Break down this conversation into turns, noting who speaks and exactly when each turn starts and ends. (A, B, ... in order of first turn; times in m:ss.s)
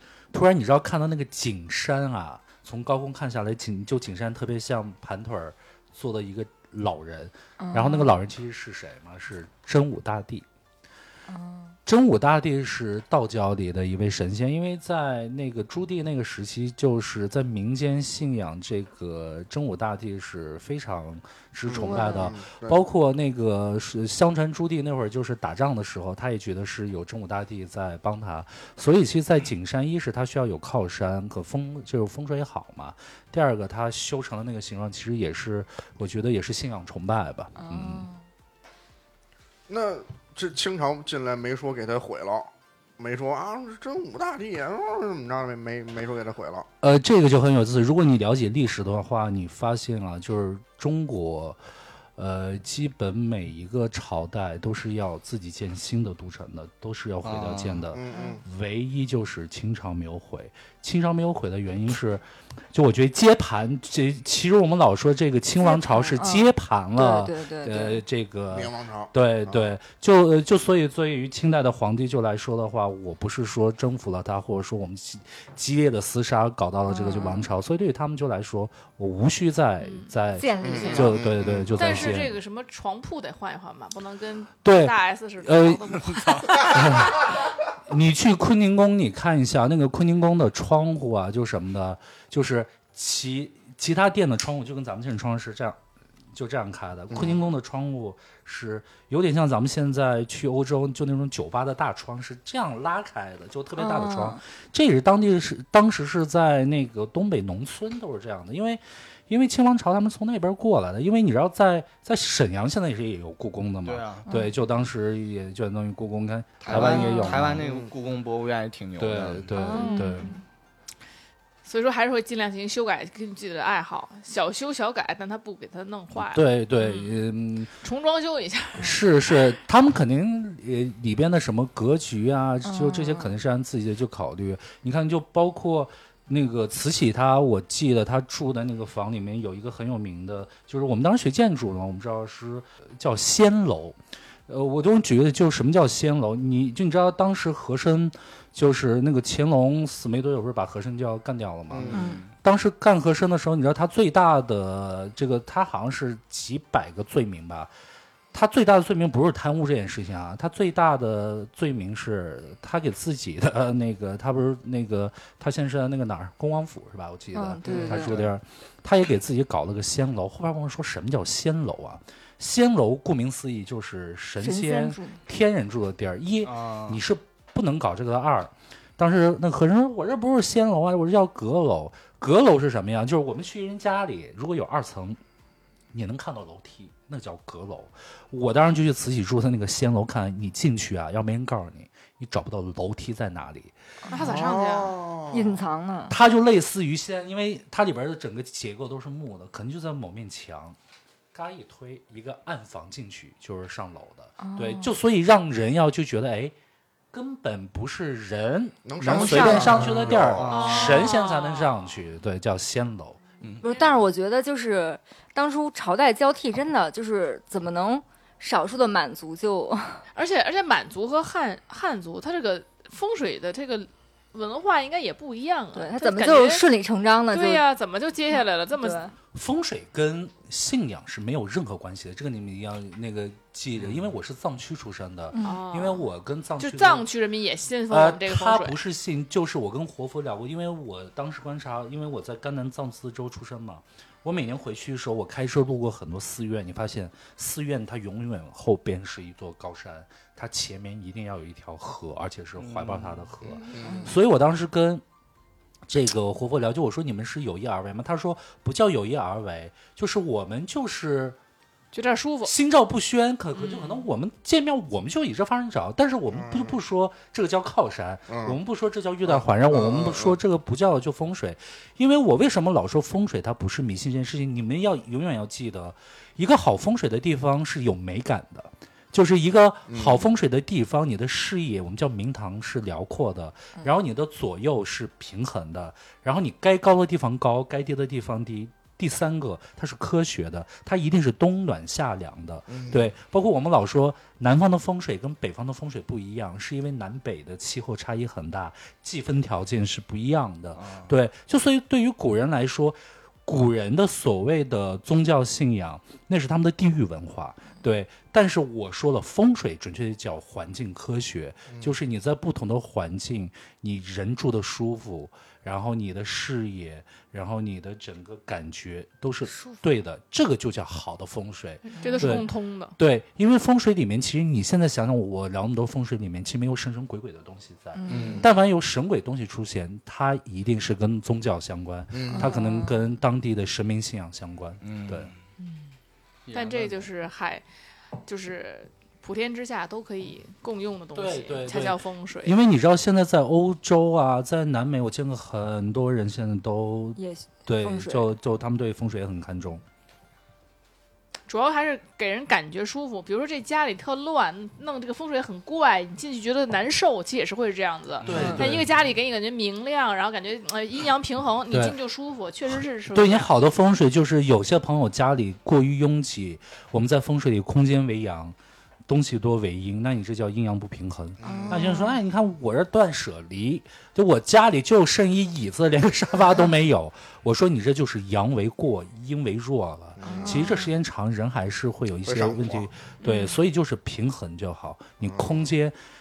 0:00.3-0:10.4 A
0:07.6-0:08.1 B
0:11.3-0:11.8 B
0:11.9-0:38.1 A
0:21.7-0:22.8 C
0:21.8-0:22.3 B
0:37.6-0:38.2 B
0:39.7-0:46.7 C
0:46.8-0:51.6 A
0:52.2-1:22.3 A
0:57.2-0:57.9 D
0:57.9-0:58.4 C
0:58.1-0:58.4 B
1:05.6-1:08.0 B
1:08.5-1:09.6 C
1:16.9-1:17.5 B
1:19.8-1:21.0 E
1:20.4-1:21.2 B
1:20.6-1:22.1 C
1:21.7-1:27.2 E
1:24.6-1:27.3 A
1:27.9-1:35.8 A
1:36.3-1:57.6 A
1:37.1-1:37.4 C
1:43.8-1:44.4 B
1:53.8-1:54.3 D
1:54.3-1:54.5 B
1:56.6-1:59.5 D
1:56.7-1:57.4 B
1:57.6-1:57.9 C
1:59.0-2:00.3 A
1:59.5-2:00.4 B
1:59.7-2:00.2 E
2:01.6-2:07.2 E
2:06.2-2:07.7 A
2:07.8-2:09.0 E
2:08.8-2:37.7 A
2:12.6-2:13.4 B
2:31.7-2:32.1 C
2:31.9-2:32.3 D
2:31.9-2:32.2 B
2:38.3-3:05.2 A
2:47.3-2:48.2 B
2:47.6-2:48.3 D
2:54.4-2:55.2 B
2:56.4-2:57.0 D
3:05.9-3:13.7 A
3:14.1-3:14.4 B
3:14.1-3:15.0 E
3:14.2-3:15.6 C
3:15.3-3:16.2 B
3:16.1-3:20.8 A
3:21.3-3:26.5 A
3:24.4-3:24.9 B
3:27.1-3:33.2 A
3:28.8-3:30.6 C
3:29.1-3:29.8 B
3:29.7-3:31.0 D
3:30.5-3:31.7 E
3:33.4-3:33.6 D
3:33.6-3:40.0 B
3:40.1-3:46.6 E
3:45.7-3:47.6 B
3:47.3-3:49.1 E
3:48.8-3:49.1 B
3:49.3-3:57.1 A
3:53.8-3:54.0 D
3:55.3-3:55.7 B
3:55.4-3:56.0 E
3:56.6-3:58.8 E
3:57.9-4:15.0 A
4:12.6-4:13.3 D
4:13.4-4:14.0 C
4:13.8-4:14.1 B
4:15.9-4:21.4 A
4:21.9-4:22.5 E
4:22.4-5:35.3 A
4:23.6-4:24.0 E
4:26.3-4:26.8 C
4:28.3-4:28.6 C
4:29.2-4:30.4 C
4:39.9-4:40.2 C
4:52.7-4:53.1 C
5:00.8-5:01.1 D
5:11.7-5:11.9 C
5:22.0-5:22.4 B
5:22.0-5:22.9 E
5:27.9-5:28.4 B
5:28.1-5:28.4 D
5:32.1-5:32.5 C
5:32.3-5:33.0 B
5:34.8-5:35.4 D
5:36.5-5:37.1 D
5:36.5-5:37.6 E
5:38.2-5:42.5 E
5:41.1-5:49.8 A
5:47.2-5:48.3 B
5:51.5-6:03.5 E
5:58.2-5:58.6 D
5:58.2-5:58.9 A
5:58.3-5:58.6 B
6:01.7-6:02.0 A
6:03.1-6:08.5 A
6:09.1-6:26.0 A
6:11.4-6:11.9 C
6:11.4-6:12.2 B
6:20.2-6:20.6 C
6:20.2-6:20.9 B
6:22.2-6:22.9 C
6:23.2-6:23.6 B
6:25.2-6:25.7 C